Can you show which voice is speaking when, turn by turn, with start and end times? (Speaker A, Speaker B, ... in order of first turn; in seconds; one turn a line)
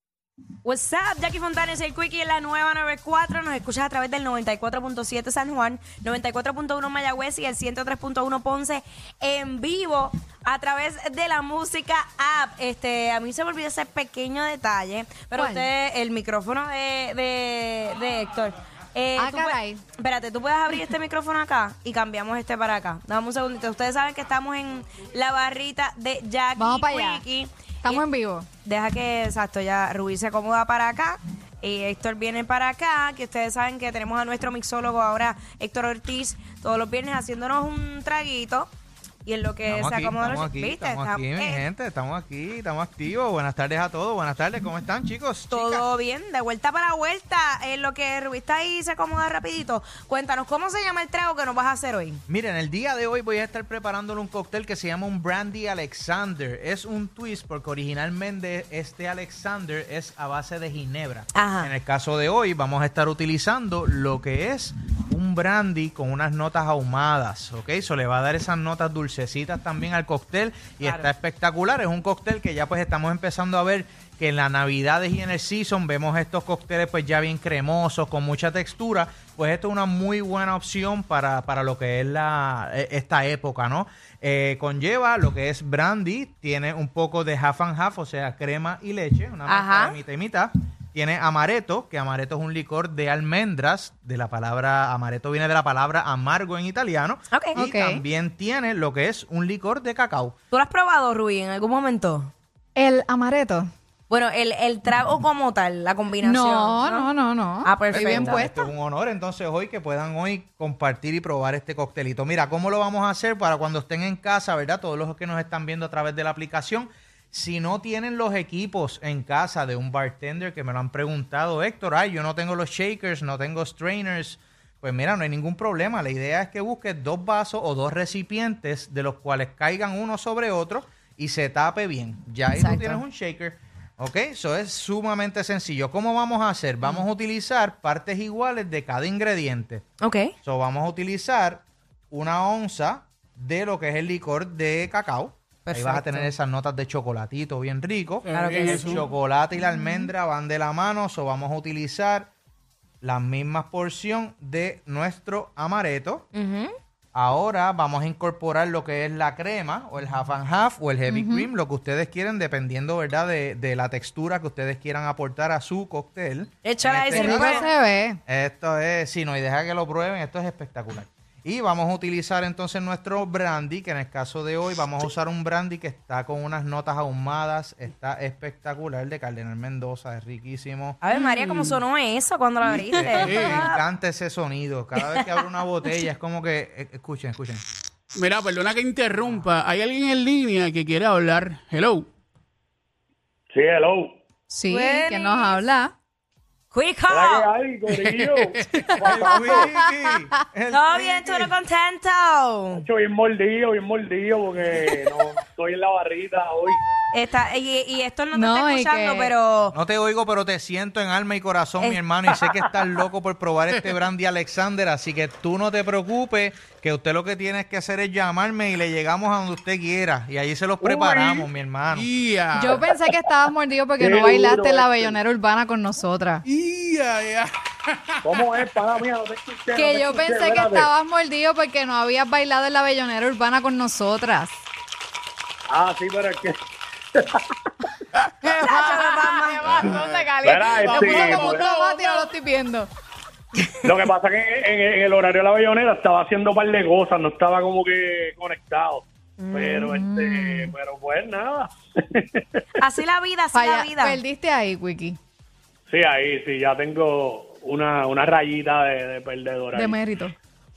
Speaker A: 0.7-28.0
Speaker B: 15.4-15.7
Speaker B: 19.2-19.8
Speaker B: 26.6-27.2
Speaker B: 27.8-28.5
Speaker A: 28.6-38.7
Speaker A: 39.3-41.6
Speaker C: 39.7-45.9
Speaker A: 45.5-52.2
Speaker C: 52.3-100.3
Speaker A: 61.4-61.7
Speaker A: 70.8-71.1
Speaker A: 89.5-90.0
Speaker A: 97.3-97.6
Speaker B: 97.6-98.0
Speaker A: 100.5-102.3
Speaker B: 102.8-103.7
Speaker A: 104.1-108.5
Speaker B: 106.2-108.7
Speaker C: 107.9-139.8
Speaker A: 132.6-133.0
Speaker A: 140.0-140.3
Speaker C: 140.4-152.3
Speaker A: 145.7-146.3
Speaker D: 148.3-149.0
Speaker A: 148.3-149.0
Speaker C: 153.0-156.3
Speaker A: 156.3-156.7
Speaker C: 157.2-167.7
Speaker B: 161.1-161.5
Speaker A: 166.6-167.7
Speaker B: 167.1-168.2
Speaker C: 168.3-181.0
Speaker A: 181.0-183.8
Speaker D: 181.2-181.6
Speaker C: 182.6-187.6
Speaker D: 183.2-183.7
Speaker D: 188.1-192.1
Speaker E: 193.5-194.2
Speaker B: 194.5-195.9
Speaker A: 194.7-195.6
Speaker A: 196.7-197.5
Speaker E: 197.1-199.7
Speaker D: 197.9-199.0
Speaker B: 198.8-200.2
Speaker C: 199.0-201.5
Speaker A: 200.7-202.8
Speaker E: 202.7-206.8
Speaker A: 207.1-209.8
Speaker B: 208.3-209.3
Speaker C: 209.7-222.1
Speaker E: 220.8-221.5
Speaker D: 221.9-222.8
Speaker B: 222.5-226.4
Speaker E: 224.0-225.2
Speaker D: 226.4-228.9
Speaker E: 228.2-230.9
Speaker B: 229.7-234.6
Speaker E: 235.7-236.6
Speaker E: 237.2-237.7
Speaker D: 238.2-238.5
Speaker B: 238.4-242.9
Speaker A: 238.6-239.8
Speaker D: 239.7-242.3
Speaker E: 239.8-241.7
Speaker E: 243.8-252.7
Speaker A: 249.4-249.9
Speaker B: 249.8-250.7
Speaker A: 252.8-254.2
Speaker B: 253.5-255.2
Speaker E: 255.9-260.0
Speaker B: 259.7-260.3